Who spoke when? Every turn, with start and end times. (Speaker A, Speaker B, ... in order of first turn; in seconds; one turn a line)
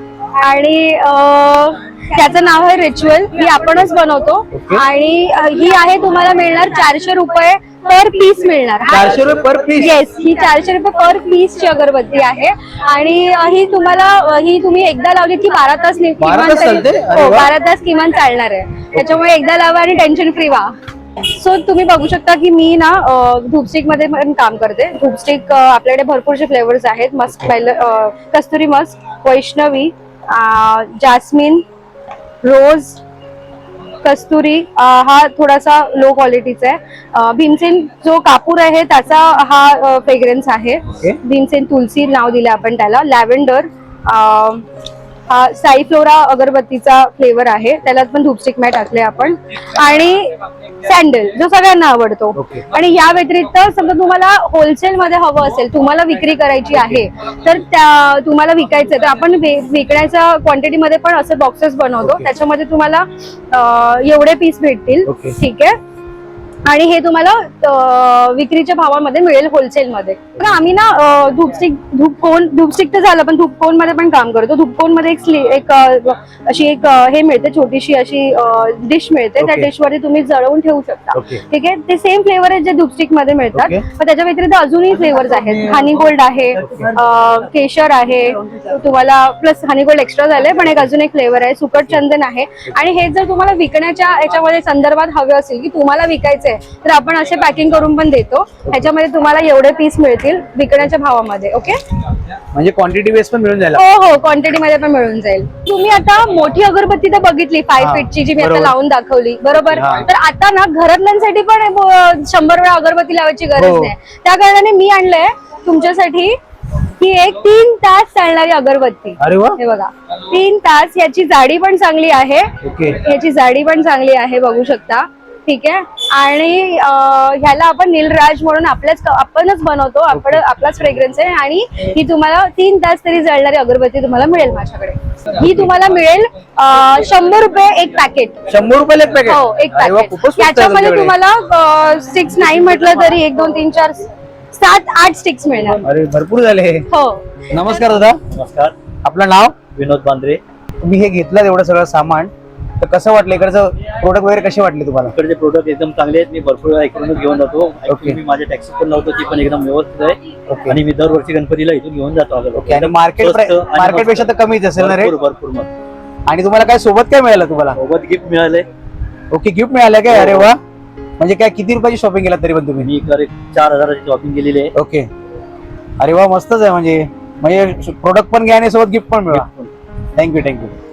Speaker A: 0.4-9.2
Speaker B: 4.5-4.8
Speaker B: 8.9-9.9
Speaker A: 9.8-20.7
Speaker B: 16.2-17.5
Speaker A: 21.3-31.6
Speaker A: 32.4-33.0
Speaker A: 34.0-44.7
Speaker A: 45.3-65.8
Speaker B: 52.4-52.7
Speaker B: 56.7-57.0
Speaker B: 62.0-62.3
Speaker B: 65.0-65.4
Speaker A: 66.7-101.8
Speaker B: 79.4-79.7
Speaker B: 81.1-81.4
Speaker B: 83.5-83.8
Speaker B: 86.6-86.9
Speaker B: 102.5-103.8
Speaker A: 103.8-138.4
Speaker B: 107.8-108.8
Speaker B: 109.5-110.1
Speaker B: 113.6-113.9
Speaker B: 119.2-119.6
Speaker B: 122.6-123.0
Speaker B: 130.1-130.4
Speaker B: 135.4-135.7
Speaker B: 138.5-141.2
Speaker A: 139.2-145.8
Speaker B: 145.8-146.9
Speaker A: 146.9-147.3
Speaker B: 147.5-148.2
Speaker C: 148.3-148.8
Speaker B: 149.0-149.6
Speaker C: 149.7-150.4
Speaker B: 150.8-155.2
Speaker C: 155.1-165.7
Speaker B: 157.9-158.2
Speaker B: 160.5-160.8
Speaker B: 162.6-165.1
Speaker B: 166.3-167.8
Speaker C: 167.8-168.7
Speaker B: 169.3-170.6
Speaker C: 170.1-170.5
Speaker B: 171.2-172.9
Speaker C: 172.8-174.7
Speaker B: 174.7-175.1
Speaker B: 176.0-179.5
Speaker C: 179.3-179.7
Speaker B: 180.2-180.7